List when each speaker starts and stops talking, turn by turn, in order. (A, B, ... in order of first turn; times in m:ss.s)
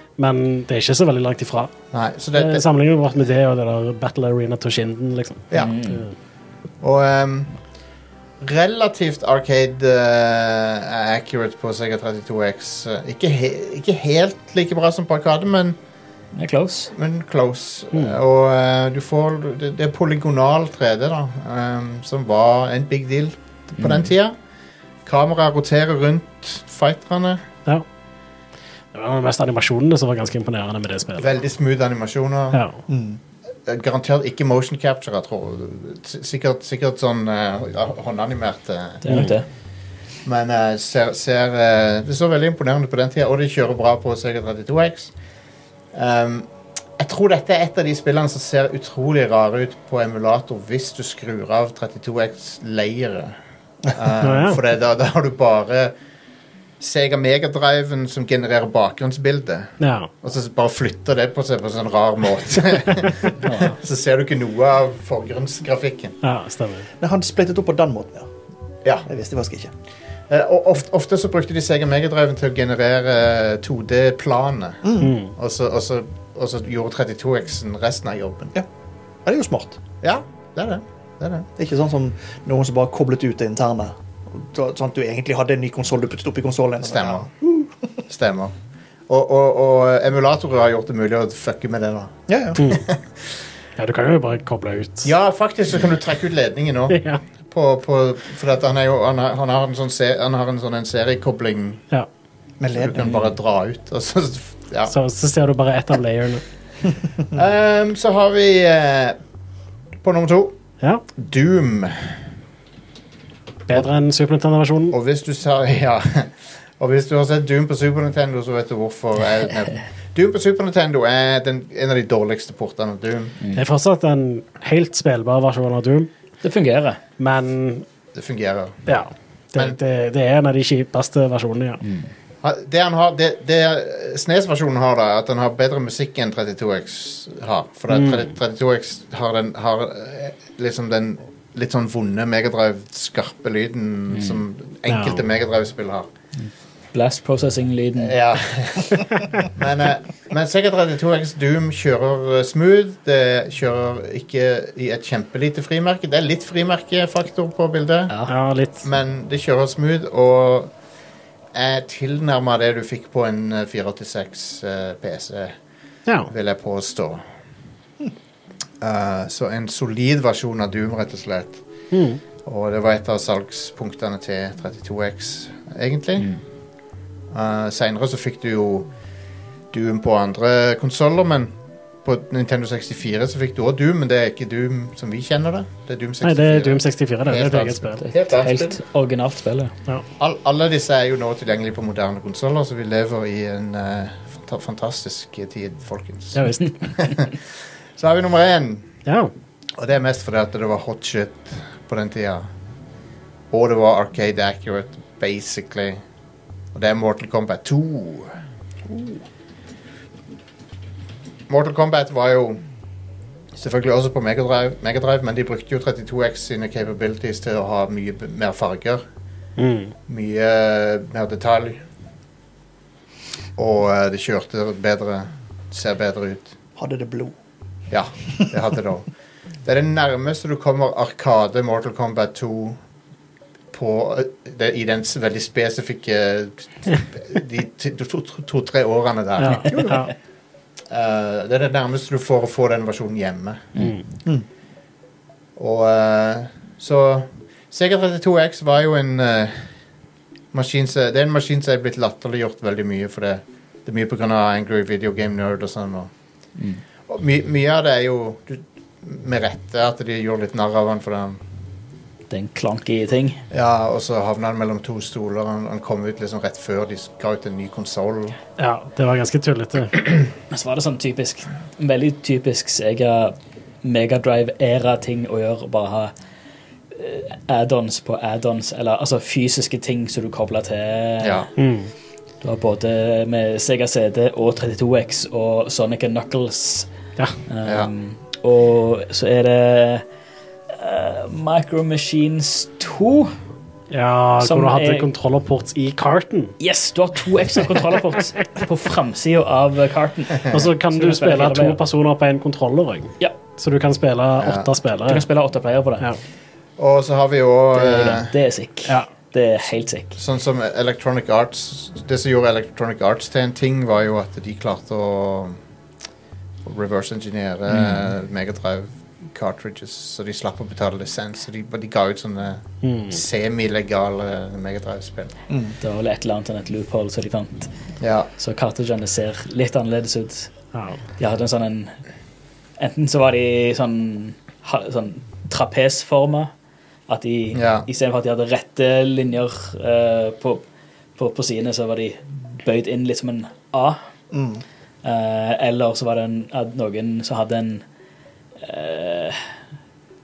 0:00.2-0:01.7 A
0:01.9-0:02.7 B
0:02.4-0:06.1 A
0:05.6-0:06.0 C
0:06.8-0:07.5 B
0:08.4-0:15.8 B
0:16.4-0:16.9 C
0:16.9-0:24.4 B
0:23.8-0:24.1 C
0:25.0-0:27.4 B
0:28.9-0:31.4 A
0:31.2-0:32.6 B
0:32.5-0:32.8 A
0:32.9-0:33.2 D
0:33.6-0:39.2 B
0:39.0-0:39.5 C
0:39.1-0:39.3 A
0:40.2-0:45.1 B
0:45.9-0:46.5 B
0:47.0-0:53.4 B
0:53.9-0:55.9 B
0:54.2-0:54.6 A
0:56.8-1:06.2 B
0:59.8-1:00.1 A
1:03.4-1:03.7 C
1:06.2-1:06.9 A
1:07.0-1:08.3 D
1:09.1-1:09.7 D
1:10.3-1:18.5 B
1:14.8-1:15.1 D
1:15.0-1:15.3 A
1:19.2-1:19.8 D
1:20.0-1:21.5 B
1:21.6-1:27.7 D
1:26.8-1:27.3 B
1:28.1-1:28.5 B
1:29.1-1:33.0 B
1:32.3-1:32.6 D
1:33.8-1:35.1 A
1:35.0-1:41.8 B
1:36.9-1:37.2 A
1:42.6-1:43.0 D
1:42.7-1:45.0 B
1:43.0-1:43.3 C
1:44.9-1:46.4 A
1:47.3-1:49.2 B
1:50.0-1:50.6 B
1:51.2-1:52.2 B
1:53.7-1:55.0 A
1:54.9-2:03.4 B
2:03.5-2:06.1 A
2:06.4-2:07.0 C
2:07.2-2:07.9 A
2:08.1-2:08.9 B
2:08.9-2:11.8 A
2:11.8-2:12.1 C
2:12.4-2:26.1 B
2:17.9-2:18.2 A
2:24.1-2:24.4 C
2:24.9-2:25.2 A
2:26.4-2:28.2 C
2:28.0-2:38.2 B
2:38.3-2:38.8 A
2:38.8-2:40.7 B
2:41.5-2:45.6 B
2:46.3-2:47.2 B
2:48.8-2:51.6 B
2:51.9-2:52.2 A
2:52.4-2:56.3 B
2:57.3-2:58.9 B
2:59.7-3:01.5 B
3:02.0-3:08.8 B
3:06.2-3:08.0 A
3:08.1-3:09.7 C
3:10.2-3:17.4 B
3:16.4-3:16.8 A
3:18.0-3:18.9 B
3:19.1-3:19.3 A
3:19.8-3:22.5 B
3:23.5-3:26.0 B
3:26.7-3:28.4 B
3:31.5-3:32.6 B
3:33.5-3:39.0 B
3:39.6-3:39.9 A
3:40.1-3:41.8 B
3:43.6-3:46.5 B
3:46.8-3:47.3 D
3:47.9-3:49.1 B
3:49.6-3:52.8 B
3:53.7-4:00.1 B
3:59.4-4:00.1 A
4:00.9-4:03.7 B
4:05.6-4:09.7 B
4:10.5-4:16.1 B
4:17.1-4:21.4 B
4:22.3-4:23.4 C
4:23.5-4:28.4 B
4:28.6-4:30.1 A
4:30.5-4:36.1 C
4:36.9-4:41.5 C
4:41.2-4:41.5 B
4:41.6-4:41.9 A
4:42.4-4:46.9 C
4:47.5-4:50.0 C
4:47.6-4:47.9 B
4:50.7-4:53.3 C
4:53.9-4:56.6 A
4:54.4-4:55.1 C
4:56.6-5:01.8 C
5:00.5-5:05.2 A
5:04.4-5:04.7 B
5:05.0-5:06.1 C
5:06.8-5:08.3 B
5:07.7-5:10.2 C
5:10.2-5:15.6 B
5:16.6-5:25.4 B
5:22.8-5:23.2 A
5:25.5-5:25.8 D
5:25.8-5:27.7 C
5:28.0-5:28.3 B
5:28.4-5:30.5 C
5:30.7-5:31.0 A
5:31.2-5:31.9 C
5:32.8-5:36.5 C
5:37.1-5:40.6 C
5:37.5-5:37.9 B
5:41.2-5:44.0 C
5:44.3-5:44.6 D
5:45.0-5:47.8 C
5:48.6-5:49.4 C